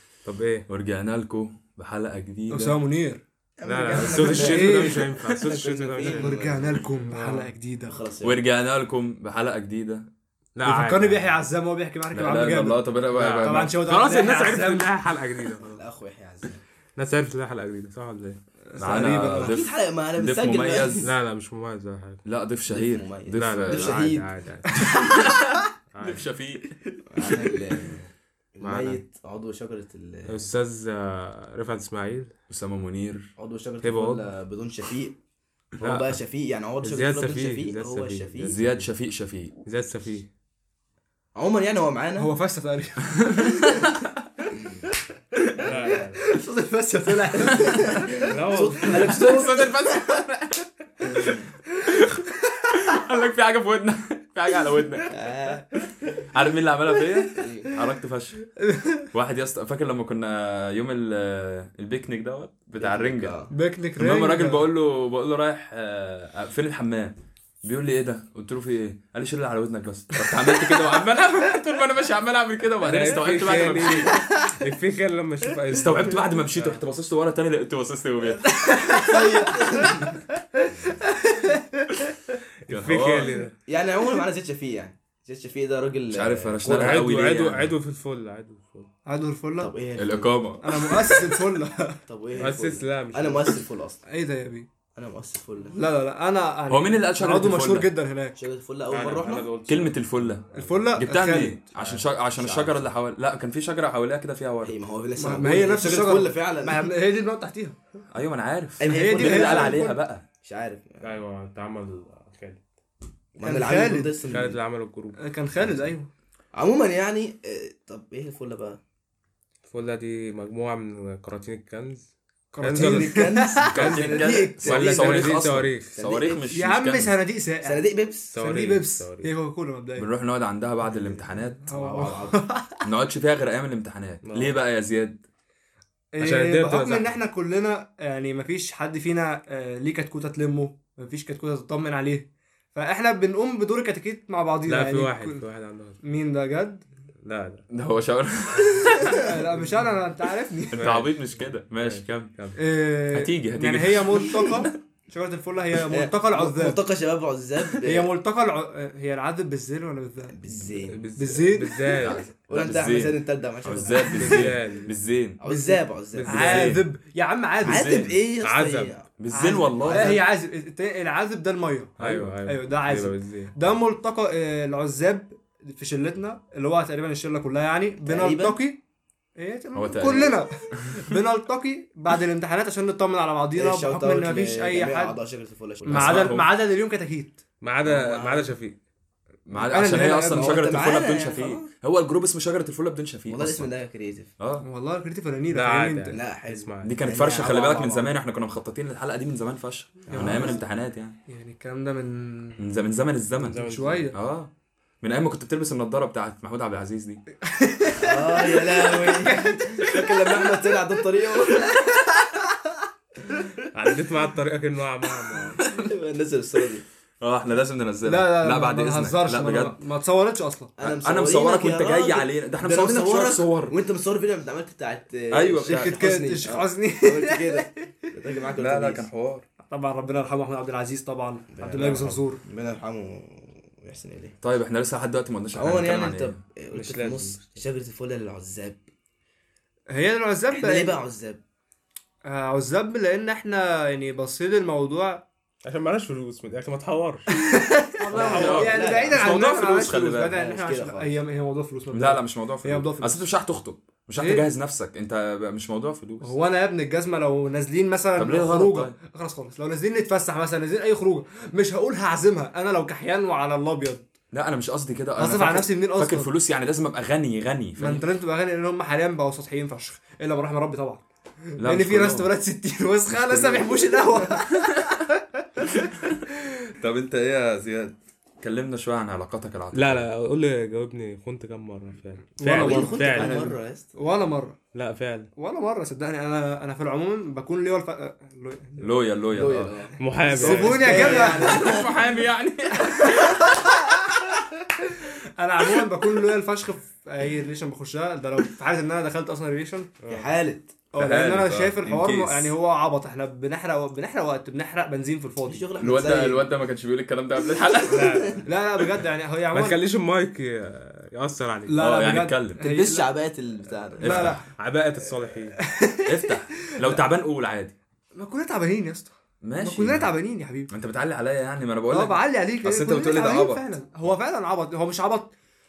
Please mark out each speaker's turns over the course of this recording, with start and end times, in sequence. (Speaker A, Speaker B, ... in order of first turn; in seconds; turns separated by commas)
Speaker A: 0.2-0.7, Speaker B: 0.7-2.8, Speaker C: 2.5-3.2, Speaker D: 3.6-6.8, Speaker A: 3.6-6.3, Speaker C: 4.1-5.0, Speaker C: 6.0-8.0, Speaker A: 7.1-7.5, Speaker D: 7.9-8.4, Speaker B: 8.2-10.1, Speaker A: 10.6-11.4, Speaker C: 10.6-12.9, Speaker B: 12.1-13.8, Speaker A: 13.1-15.7, Speaker C: 13.4-15.0, Speaker D: 15.6-16.6, Speaker A: 17.0-19.4, Speaker C: 18.7-19.5, Speaker B: 18.8-21.1, Speaker D: 19.3-21.1, Speaker A: 21.0-22.2, Speaker B: 22.2-24.1, Speaker D: 22.7-24.3, Speaker A: 23.3-24.9, Speaker C: 24.7-25.6, Speaker B: 24.9-25.3, Speaker A: 25.9-26.2, Speaker B: 26.0-26.7, Speaker D: 27.1-30.5, Speaker C: 27.2-27.6, Speaker A: 28.6-29.0, Speaker A: 30.3-32.3, Speaker B: 32.5-33.3, Speaker D: 33.4-35.2, Speaker A: 33.8-34.3, Speaker D: 35.8-38.6, Speaker A: 35.8-36.1, Speaker A: 36.8-38.9, Speaker B: 38.4-39.5, Speaker A: 39.6-40.3, Speaker D: 41.3-42.3, Speaker C: 42.2-43.8, Speaker B: 43.4-43.9, Speaker D: 44.5-44.9, Speaker A: 45.6-46.2, Speaker C: 45.8-48.2, Speaker B: 47.4-47.8, Speaker D: 47.5-49.7, Speaker A: 48.2-49.2, Speaker B: 49.0-52.2, Speaker B: 52.8-55.1, Speaker D: 55.1-55.6, Speaker B: 56.2-58.5, Speaker D: 57.3-57.7, Speaker C: 58.6-59.1, Speaker B: 59.1-63.4, Speaker D: 62.8-63.5, Speaker C: 63.5-64.6, Speaker B: 64.0-74.2, Speaker A: 72.8-76.8, Speaker C: 74.1-74.6, Speaker B: 75.7-78.8, Speaker C: 78.4-82.1, Speaker D: 79.0-80.2, Speaker A: 82.6-83.5, Speaker B: 82.7-83.4, Speaker D: 83.7-86.9, Speaker B: 86.1-87.7, Speaker A: 86.6-88.9, Speaker C: 89.0-89.7, Speaker D: 89.6-90.5, Speaker B: 90.0-91.2, Speaker C: 90.6-92.0, Speaker D: 92.1-94.0, Speaker A: 92.4-93.6, Speaker C: 94.1-94.7, Speaker D: 94.9-95.8, Speaker C: 95.7-98.4, Speaker B: 96.7-97.9, Speaker D: 98.4-99.5, Speaker A: 98.9-100.9, Speaker B: 99.7-100.4, Speaker C: 100.5-101.6, Speaker B: 101.0-104.7, Speaker A: 101.8-102.0, Speaker D: 102.3-102.9, Speaker D: 104.6-106.9, Speaker C: 105.2-107.8, Speaker B: 108.1-110.2, Speaker D: 108.8-111.2, Speaker C: 108.8-110.0, Speaker A: 111.0-112.6, Speaker D: 113.3-114.6, Speaker C: 113.4-114.2, Speaker A: 114.3-115.2, Speaker C: 115.2-116.1, Speaker D: 116.5-118.8, Speaker A: 119.7-126.0, Speaker C: 122.5-123.7, Speaker D: 122.7-126.6, Speaker B: 123.7-127.1, Speaker C: 126.5-130.1, Speaker D: 127.6-128.3, Speaker A: 128.3-129.3, Speaker B: 130.0-131.7, Speaker A: 130.9-131.2, Speaker D: 131.7-132.4, Speaker C: 131.7-132.8, Speaker B: 132.8-135.2, Speaker A: 134.2-134.5, Speaker C: 136.1-145.4, Speaker A: 136.2-137.1, Speaker A: 144.7-146.0, Speaker C: 146.0-146.8, Speaker A: 147.2-147.7, Speaker B: 147.7-149.3, Speaker C: 149.0-151.0, Speaker A: 149.6-149.9, Speaker A: 150.7-152.6, Speaker B: 150.7-152.3, Speaker C: 152.6-156.8, Speaker B: 153.1-154.6, Speaker D: 155.9-158.1, Speaker C: 157.8-160.3, Speaker D: 160.3-161.1, Speaker A: 160.9-162.2, Speaker C: 161.2-162.2, Speaker B: 162.0-165.4, Speaker D: 162.5-164.6, Speaker A: 163.9-164.9, Speaker D: 165.4-166.8, Speaker C: 165.4-167.9, Speaker B: 166.2-166.8, Speaker B: 167.6-168.2, Speaker D: 167.6-170.2, Speaker A: 168.4-168.9, Speaker B: 169.2-170.2, Speaker C: 169.3-178.8, Speaker B: 172.0-172.3, Speaker A: 172.0-173.5, Speaker D: 178.0-178.6, Speaker C: 179.3-185.2, Speaker B: 179.7-181.0, Speaker D: 183.5-186.4, Speaker C: 185.8-187.4, Speaker B: 185.9-186.5, Speaker A: 187.6-188.8, Speaker D: 187.8-188.5, Speaker B: 189.5-193.7, Speaker C: 189.6-190.6, Speaker D: 190.0-191.7, Speaker D: 193.3-194.3, Speaker B: 194.4-194.7, Speaker C: 194.6-196.2, Speaker A: 195.5-196.9, Speaker D: 196.1-198.1, Speaker B: 196.8-201.2, Speaker D: 200.1-200.7, Speaker C: 200.1-200.6, Speaker C: 201.3-202.6, Speaker B: 202.6-203.6, Speaker A: 203.4-204.1, Speaker C: 203.6-204.2, Speaker B: 204.1-204.5, Speaker B: 205.0-207.2, Speaker C: 207.4-210.0, Speaker D: 208.0-211.7, Speaker C: 211.6-212.4, Speaker A: 213.7-215.6, Speaker D: 215.6-216.8, Speaker B: 217.2-219.8, Speaker C: 218.0-220.7, Speaker D: 220.8-229.1, Speaker B: 220.8-223.7, Speaker B: 225.3-226.0, Speaker C: 225.7-228.1, Speaker B: 228.6-229.4, Speaker C: 229.6-232.4, Speaker D: 231.5-234.3, Speaker B: 234.4-236.3, Speaker D: 235.5-238.8, Speaker A: 236.7-237.6, Speaker C: 239.9-240.9, Speaker D: 240.5-241.4, Speaker C: 242.2-245.2, Speaker A: 245.6-247.3, Speaker C: 247.3-253.3, Speaker D: 248.1-249.4, Speaker B: 248.1-250.3, Speaker A: 248.3-248.7, Speaker D: 250.3-251.2, Speaker B: 251.9-256.3, Speaker C: 254.2-254.4, Speaker C: 256.2-264.1, Speaker B: 258.1-258.9, Speaker B: 264.3-268.1, Speaker C: 265.2-266.3, Speaker C: 267.8-275.2, Speaker B: 271.6-272.3, Speaker B: 273.1-274.6, Speaker B: 276.8-280.1, Speaker A: 279.7-283.4, Speaker C: 282.4-284.6, Speaker D: 282.5-283.9, Speaker A: 284.7-285.3, Speaker C: 285.4-288.9, Speaker B: 288.8-289.7, Speaker D: 289.3-291.9, Speaker A: 290.0-291.0, Speaker C: 290.2-291.7, Speaker B: 290.9-293.7, Speaker C: 293.0-293.7, Speaker C: 295.0-299.9, Speaker A: 300.0-300.3, Speaker D: 300.1-300.7, Speaker B: 300.9-302.5, Speaker C: 300.9-305.6, Speaker D: 305.4-306.5, Speaker B: 305.8-308.4, Speaker A: 307.9-308.4, Speaker D: 307.9-308.4, Speaker C: 308.4-309.8, Speaker A: 309.5-311.8, Speaker C: 311.7-313.1, Speaker B: 311.8-312.6, Speaker D: 312.6-314.4, Speaker C: 314.0-314.4, Speaker B: 314.0-314.4, Speaker A: 314.6-315.6, Speaker C: 315.6-316.1, Speaker B: 316.0-317.7, Speaker C: 318.1-320.7, Speaker B: 319.4-320.1, Speaker B: 320.7-323.7, Speaker C: 321.9-325.3